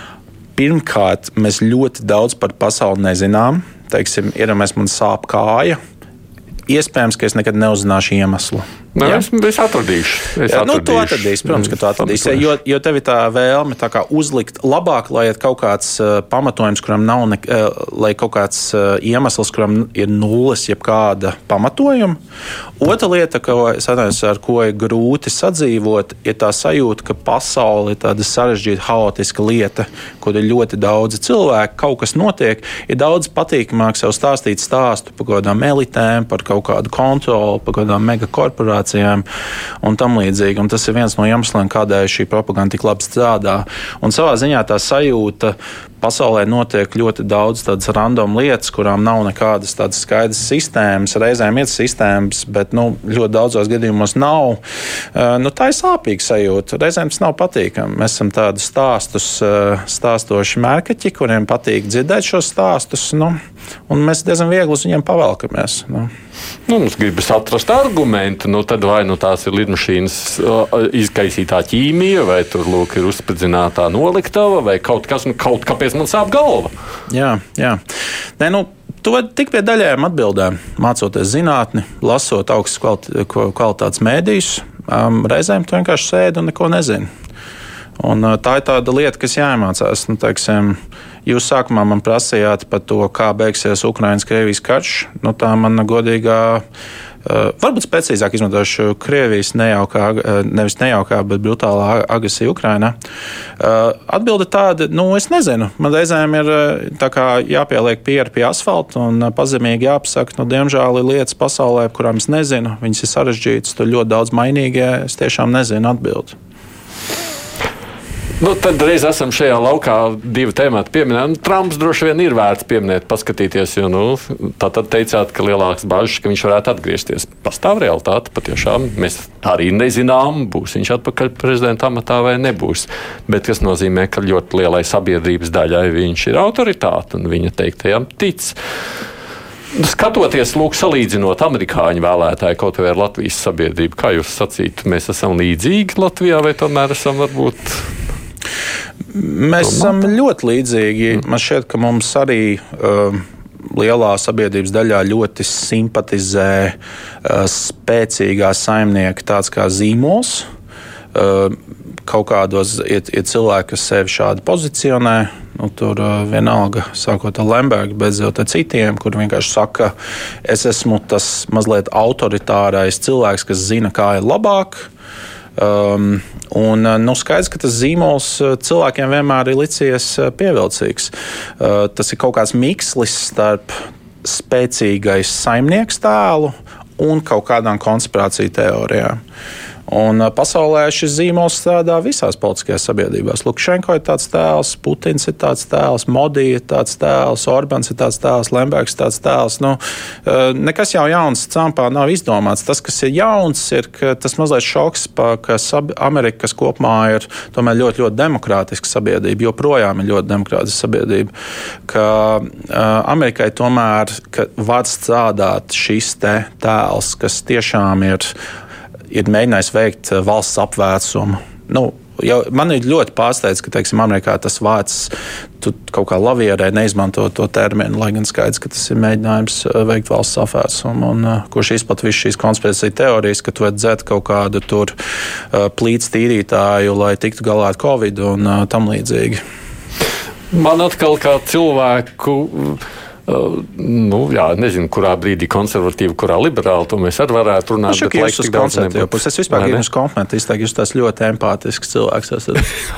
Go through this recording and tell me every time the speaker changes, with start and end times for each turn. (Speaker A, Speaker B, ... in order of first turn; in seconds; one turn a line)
Speaker A: 0.6-5.8
Speaker A: 6.7-9.2
Speaker B: 8.9-12.4
Speaker A: 10.5-22.2
Speaker A: 22.8-39.2
Speaker A: 39.8-54.6
Speaker A: 55.1-63.4
Speaker A: 63.9-66.1
Speaker B: 66.7-76.7
Speaker A: 77.1-77.8
Speaker A: 78.4-87.1
Speaker A: 88.0-96.6
Speaker A: 97.2-103.0
Speaker A: 103.6-116.4
Speaker B: 118.4-138.6
Speaker B: 139.7-147.9
Speaker A: 149.1-160.5
Speaker B: 149.6-149.9
Speaker A: 161.1-169.9
Speaker A: 170.4-174.9
Speaker A: 175.6-189.2
Speaker A: 189.9-211.3
Speaker A: 211.9-218.3
Speaker A: 219.1-234.9
Speaker A: 235.5-239.4
Speaker B: 240.5-249.8
Speaker A: 247.9-252.7